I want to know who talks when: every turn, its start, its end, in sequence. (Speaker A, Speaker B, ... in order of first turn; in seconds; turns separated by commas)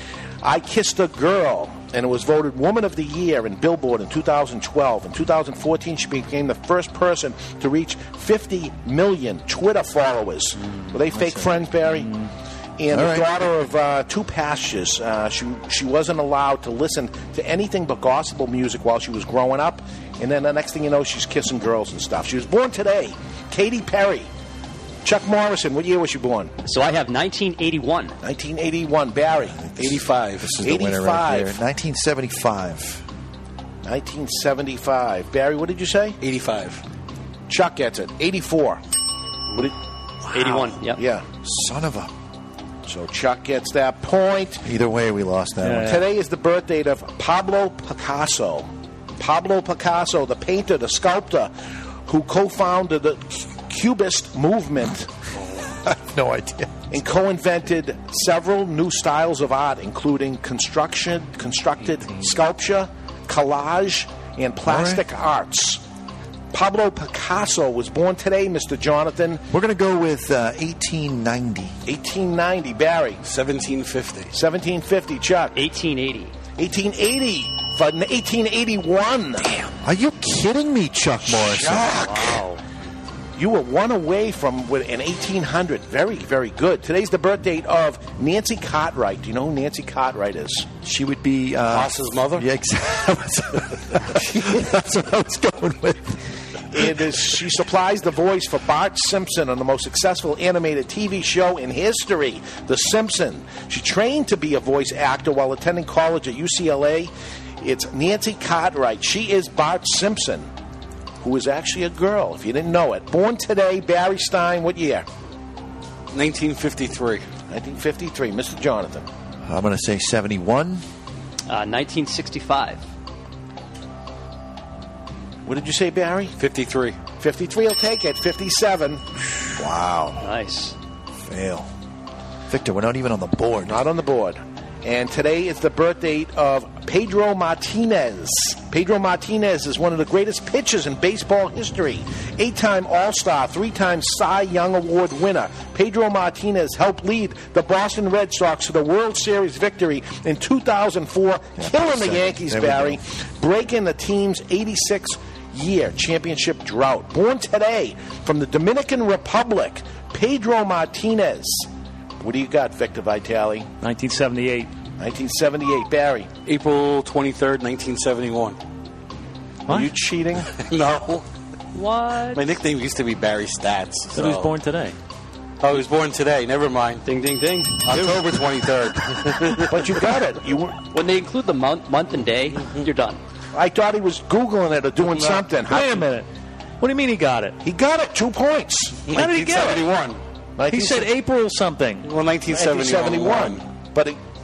Speaker A: 0.4-12.1, Speaker B: 10.7-12.3, Speaker A: 12.8-24.3, Speaker C: 12.9-13.4, Speaker A: 25.0-26.5, Speaker D: 26.6-28.1, Speaker A: 28.2-29.8, Speaker C: 29.6-33.0, Speaker E: 29.8-30.6, Speaker A: 30.6-31.6, Speaker A: 33.8-36.2, Speaker E: 36.2-36.8, Speaker A: 37.5-38.8, Speaker A: 40.2-41.2, Speaker D: 40.3-41.0, Speaker C: 41.4-42.1, Speaker A: 42.9-44.6, Speaker C: 44.6-46.0, Speaker B: 45.6-46.0, Speaker A: 45.8-51.5, Speaker A: 52.0-55.1, Speaker C: 55.8-56.9, Speaker A: 56.9-65.8, Speaker C: 64.6-65.0, Speaker A: 66.5-69.4, Speaker C: 69.5-71.8, Speaker A: 71.8-73.2, Speaker E: 73.2-74.3, Speaker A: 74.3-75.6, Speaker D: 75.5-76.3, Speaker A: 76.6-79.5, Speaker C: 79.8-82.1, Speaker A: 81.3-82.4, Speaker D: 82.1-82.6, Speaker A: 83.3-90.7, Speaker C: 90.8-96.2, Speaker E: 91.7-92.5, Speaker A: 96.7-110.5, Speaker A: 111.2-115.0, Speaker E: 116.1-117.2, Speaker A: 117.5-119.1, Speaker C: 119.4-120.8, Speaker D: 121.5-122.8, Speaker A: 125.4-126.3, Speaker E: 126.4-127.0, Speaker A: 127.2-130.2, Speaker D: 130.2-130.7, Speaker C: 131.2-131.7, Speaker C: 132.5-133.8, Speaker A: 133.6-161.7, Speaker C: 151.6-153.0, Speaker A: 162.2-163.7, Speaker B: 163.8-164.7, Speaker A: 165.0-166.3, Speaker E: 166.4-168.6, Speaker A: 169.7-170.5, Speaker E: 170.6-171.2, Speaker D: 171.8-172.4, Speaker E: 172.3-174.5, Speaker B: 174.1-174.9, Speaker E: 175.6-177.0, Speaker D: 177.1-178.2, Speaker E: 177.8-179.7, Speaker A: 179.7-180.8, Speaker D: 180.9-183.2, Speaker A: 183.5-186.0, Speaker E: 185.0-185.4, Speaker B: 185.7-186.3, Speaker B: 186.8-187.6, Speaker A: 187.6-189.9, Speaker B: 189.1-189.8, Speaker E: 189.1-190.2, Speaker A: 190.6-191.1, Speaker B: 190.7-192.1, Speaker E: 192.0-193.6, Speaker A: 192.5-194.2